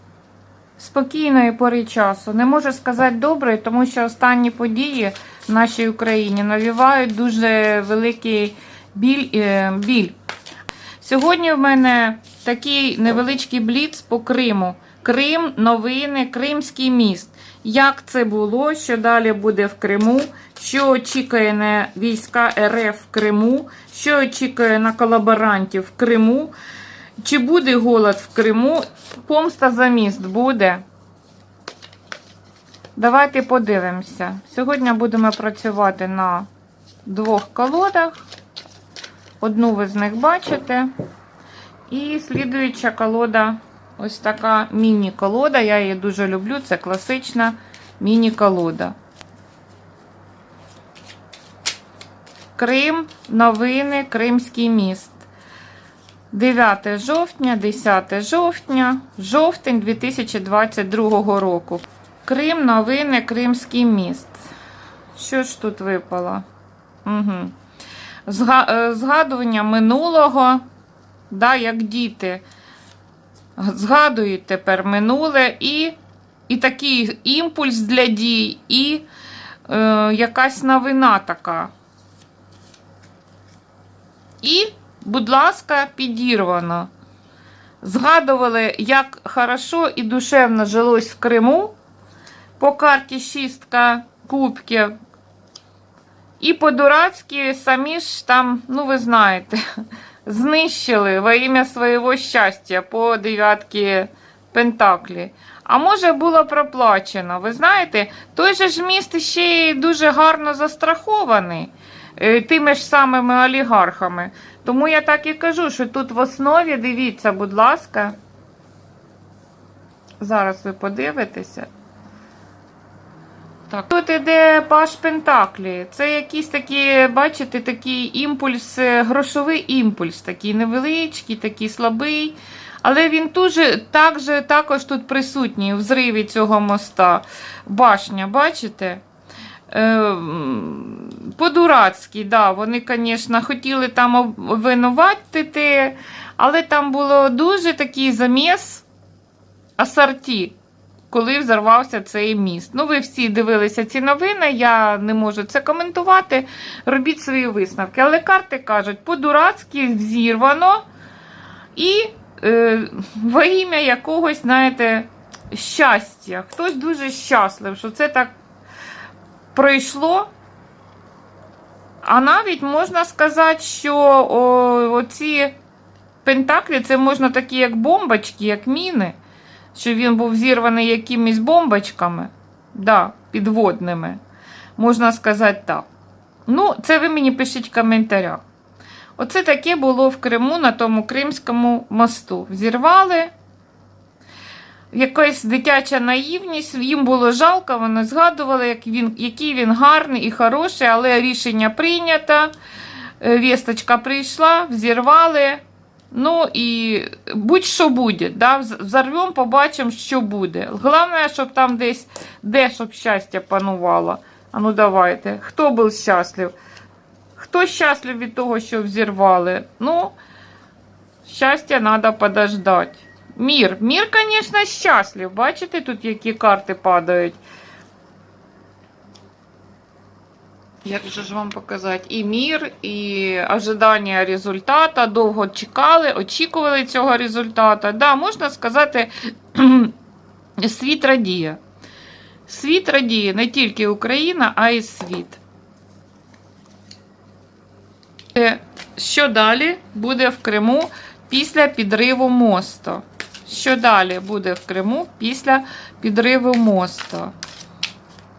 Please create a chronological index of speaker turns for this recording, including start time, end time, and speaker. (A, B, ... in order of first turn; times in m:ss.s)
0:00.8-0:10.2 A
0:11.0-0:26.5 A
0:27.2-0:30.8 A
0:33.0-0:36.5 A
0:37.0-0:38.2 A
0:39.4-0:40.9 A
0:41.9-0:48.9 A
0:52.6-0:55.2 A
0:56.3-1:04.4 A
1:05.2-1:06.4 A
1:07.0-1:07.5 A
1:08.3-1:10.6 A
1:11.3-1:12.4 A
1:13.6-1:16.0 A
1:16.5-1:19.0 A
1:19.7-1:21.7 A
1:24.4-1:26.9 A
1:27.8-1:31.7 A
1:32.6-1:34.9 A
1:36.4-1:39.6 A
1:40.2-1:58.2 A
2:00.2-2:01.7 A
2:03.7-2:19.0 A
2:19.7-2:28.8 A
2:29.8-2:30.5 A
2:31.1-2:40.8 A
2:41.7-2:48.4 A
2:49.5-2:50.3 A
2:52.0-2:55.5 A
2:56.2-2:59.2 A
2:59.7-3:04.2 A
3:04.8-3:05.9 A
3:06.5-3:08.4 A
3:09.2-3:13.3 A
3:14.9-3:22.5 A
3:23.2-3:36.5 A
3:37.4-3:40.1 A
3:41.2-3:47.4 A
3:50.8-3:59.9 A
4:00.6-4:01.6 A
4:02.5-4:05.4 A
4:08.3-4:17.3 A